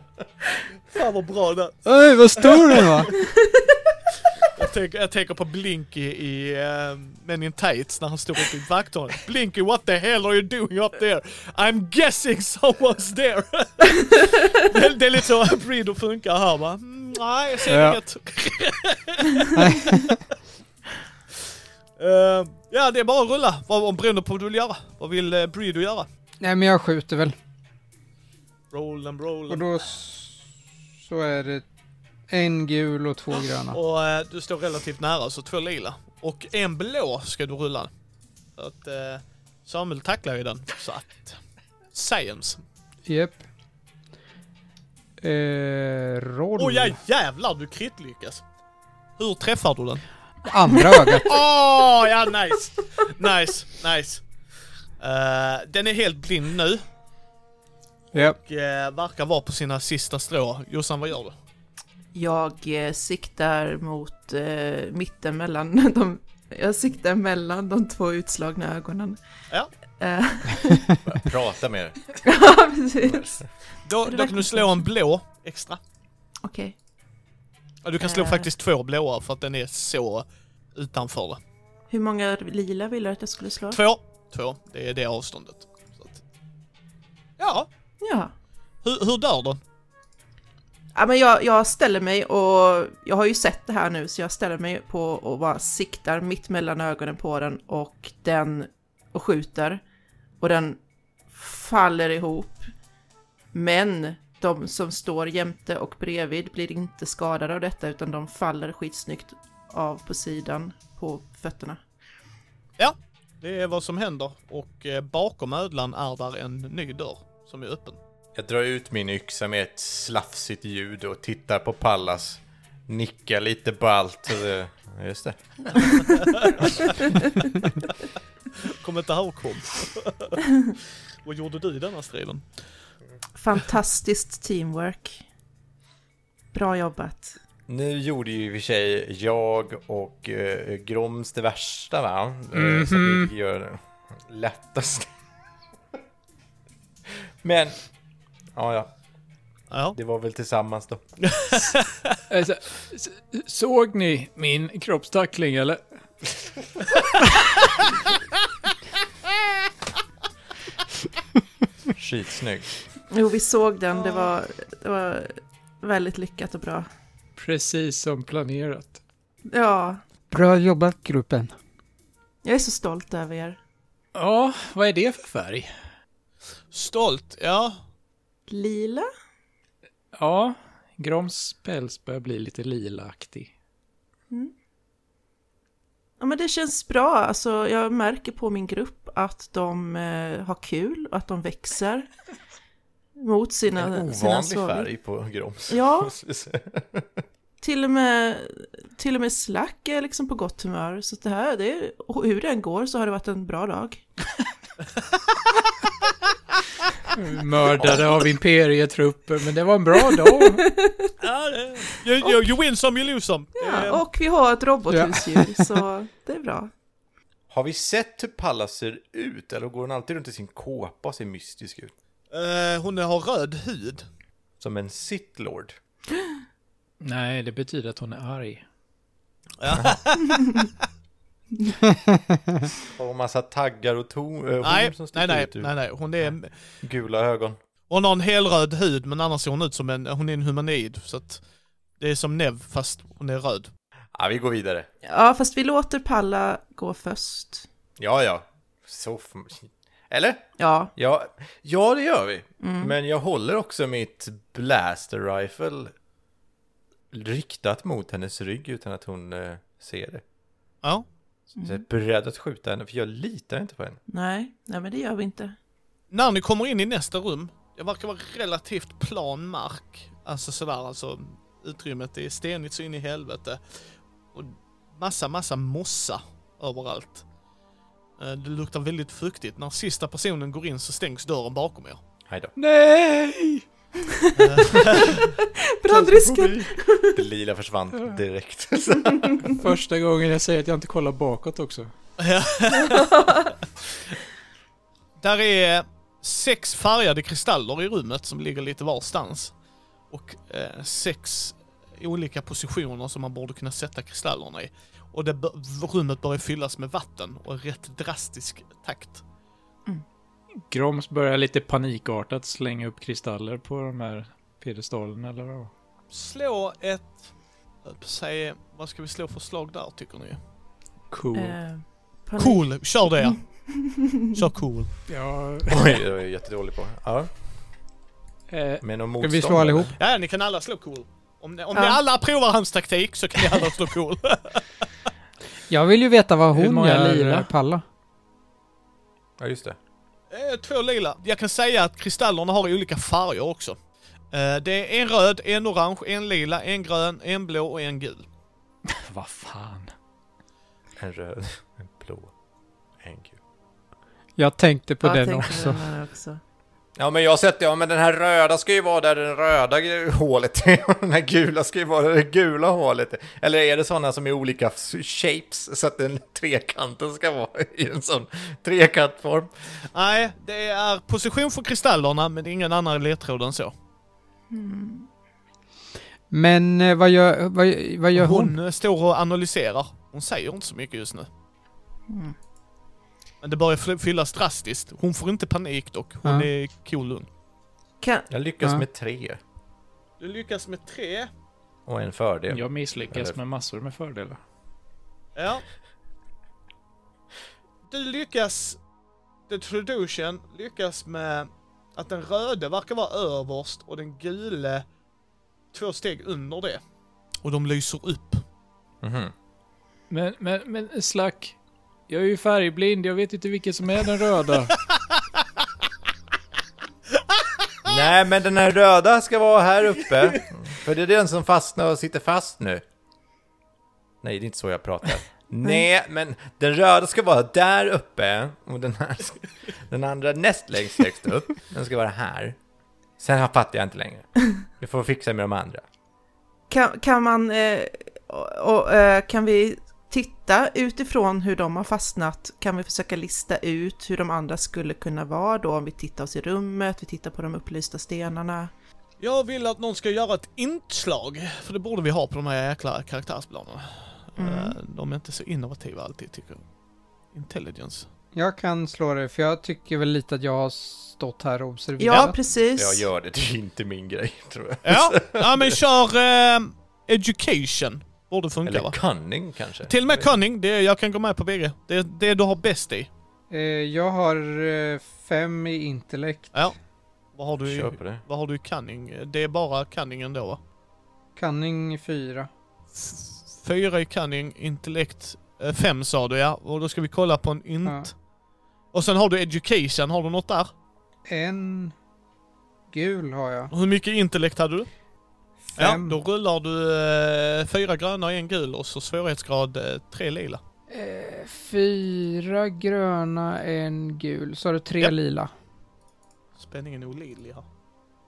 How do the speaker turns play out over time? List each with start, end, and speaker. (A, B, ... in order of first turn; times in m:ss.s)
0:00.9-0:01.8 A
0:01.9-0:03.1 B
0:02.4-0:03.1 A
0:03.4-0:03.6 C
0:04.4-0:20.2 A
0:17.7-0:18.0 B
0:19.6-0:20.2 B
0:22.0-0:26.1 A
0:26.4-0:27.4 B
0:28.7-0:29.7 A
0:29.5-0:30.4 B
0:31.0-0:31.6 B
0:32.3-0:33.8 B
0:33.7-0:37.9 A
0:38.6-0:41.4 A
0:41.9-0:42.6 A
0:43.1-0:43.4 B
0:45.2-0:47.0 B
0:46.6-0:48.4 A
0:49.2-0:50.0 A
0:50.5-0:51.4 B
0:51.1-0:54.2 A
0:55.0-0:56.8 A
0:58.1-1:01.4 A
1:02.1-1:09.2 C
1:10.0-1:10.9 C
1:11.0-1:12.0 D
1:12.2-1:13.4 C
1:13.0-1:13.4 D
1:13.9-1:15.8 A
1:14.1-1:14.8 C
1:16.4-1:16.7 C
1:17.8-1:21.4 A
1:18.0-1:18.5 C
1:21.9-1:23.8 C
1:23.7-1:26.2 A
1:27.4-1:27.7 A
1:28.0-1:28.3 C
1:28.8-1:29.6 A
1:31.0-1:39.8 C
1:40.4-1:40.8 C
1:41.3-1:42.6 C
1:43.5-1:51.8 C
1:52.8-1:58.0 A
1:58.4-2:06.0 D
2:06.1-2:06.6 A
2:06.6-2:06.9 D
2:08.6-2:10.4 A
2:11.2-2:12.4 A
2:13.4-2:15.2 C
2:16.5-2:17.3 C
2:17.7-2:25.1 D
2:22.5-2:23.3 E
2:27.4-2:27.8 D
2:28.5-2:28.9 D
2:29.7-2:30.0 A
2:29.9-2:31.0 D
2:31.2-2:32.2 A
2:32.3-2:35.8 E
2:42.0-2:42.7 D
2:43.1-2:46.9 C
2:44.0-2:44.3 A
2:47.4-2:49.0 E
2:49.5-2:50.0 C
2:50.3-2:51.5 B
2:52.4-2:53.6 C
2:54.2-2:55.7 E
2:56.7-2:57.8 A
2:58.5-2:59.1 C
3:00.2-3:03.5 E
3:06.2-3:12.1 C
3:13.2-3:14.9 C
3:13.8-3:17.2 D
3:15.7-3:16.1 C
3:17.6-3:24.0 C
3:27.1-3:30.6 E
3:27.8-3:28.1 D
3:30.5-3:31.1 C
3:31.2-3:34.0 A
3:33.6-3:36.7 C
3:34.9-3:35.7 B
3:37.5-3:41.9 D
3:42.3-3:44.1 A
3:44.6-3:45.8 D
3:47.0-3:48.6 E
3:49.6-3:50.7 A
3:49.7-3:50.0 D
3:52.9-3:55.7 D
3:54.6-3:56.5 A
3:56.2-3:57.6 D
3:57.9-4:01.4 A
4:02.0-4:03.7 A
4:04.2-4:04.9 D
4:05.0-4:07.6 C
4:08.0-4:15.9 D
4:10.6-4:10.9 C
4:12.6-4:12.9 C
4:17.1-4:20.2 D
4:21.6-4:21.8 C
4:21.6-4:24.0 D
4:24.1-4:25.6 C
4:26.1-4:33.6 A
4:34.3-4:37.2 A
4:38.2-4:42.0 A
4:42.6-4:43.6 E
4:44.3-4:47.2 C
4:44.4-4:45.3 A
4:45.9-4:46.5 E
4:47.1-4:49.4 D
4:49.5-4:51.9 E
4:52.2-4:53.4 A
4:52.9-4:53.4 C
4:55.2-4:59.5 A
5:00.1-5:09.2 A
5:10.7-5:15.7 E
5:16.1-5:17.3 A
5:17.8-5:20.4 A
5:21.1-5:21.6 E
5:21.4-5:24.3 C
5:22.4-5:23.4 A
5:24.3-5:24.9 A
5:25.1-5:26.0 E
5:25.7-5:27.3 D
5:28.5-5:28.8 E
5:28.8-5:29.9 D
5:29.2-5:29.9 B
5:30.0-5:34.6 A
5:31.7-5:32.0 C
5:35.7-5:37.8 B
5:36.5-5:37.5 E
5:39.4-5:39.8 D
5:40.3-5:43.8 A
5:44.3-5:48.3 A
5:48.9-5:49.9 E
5:51.0-5:52.3 D
5:53.0-5:53.4 D
5:54.4-5:55.8 B
5:55.0-5:56.4 C
5:57.0-6:09.5 D
6:09.9-6:13.7 A
6:14.5-6:15.1 C
6:16.3-6:18.6 B
6:18.2-6:21.3 A
6:22.1-6:22.4 C
6:23.4-6:27.3 A
6:28.0-6:28.3 C
6:28.3-6:29.4 D
6:30.2-6:31.3 A
6:31.9-6:33.4 D
6:32.5-6:34.4 E
6:35.4-6:35.6 A
6:37.9-6:38.8 A
6:39.5-6:44.8 A
6:45.7-6:46.8 A
6:47.4-6:48.4 A
6:49.0-6:49.3 D
6:50.1-6:51.6 E
6:52.1-6:54.7 E
6:57.3-6:57.9 A
6:57.8-7:02.8 D
7:04.2-7:12.6 D
7:13.2-7:15.8 D
7:16.7-7:28.7 C
7:29.2-7:36.6 A
7:34.4-7:34.8 C
7:37.3-7:38.1 A
7:38.3-7:42.4 B
7:42.0-7:43.0 C
7:42.8-7:45.8 D
7:44.8-7:49.0 A
7:48.6-7:50.3 D
7:49.9-7:53.1 A
7:53.5-7:56.6 B
7:57.4-8:00.6 A
7:57.7-7:58.2 D
8:01.4-8:02.5 B
8:03.0-8:08.1 A
8:08.9-8:10.7 A
8:11.3-8:11.9 B
8:12.9-8:13.7 B
8:13.7-8:14.9 A
8:15.7-8:16.2 B
8:15.8-8:20.6 A
8:20.9-8:25.5 B
8:26.6-8:27.6 A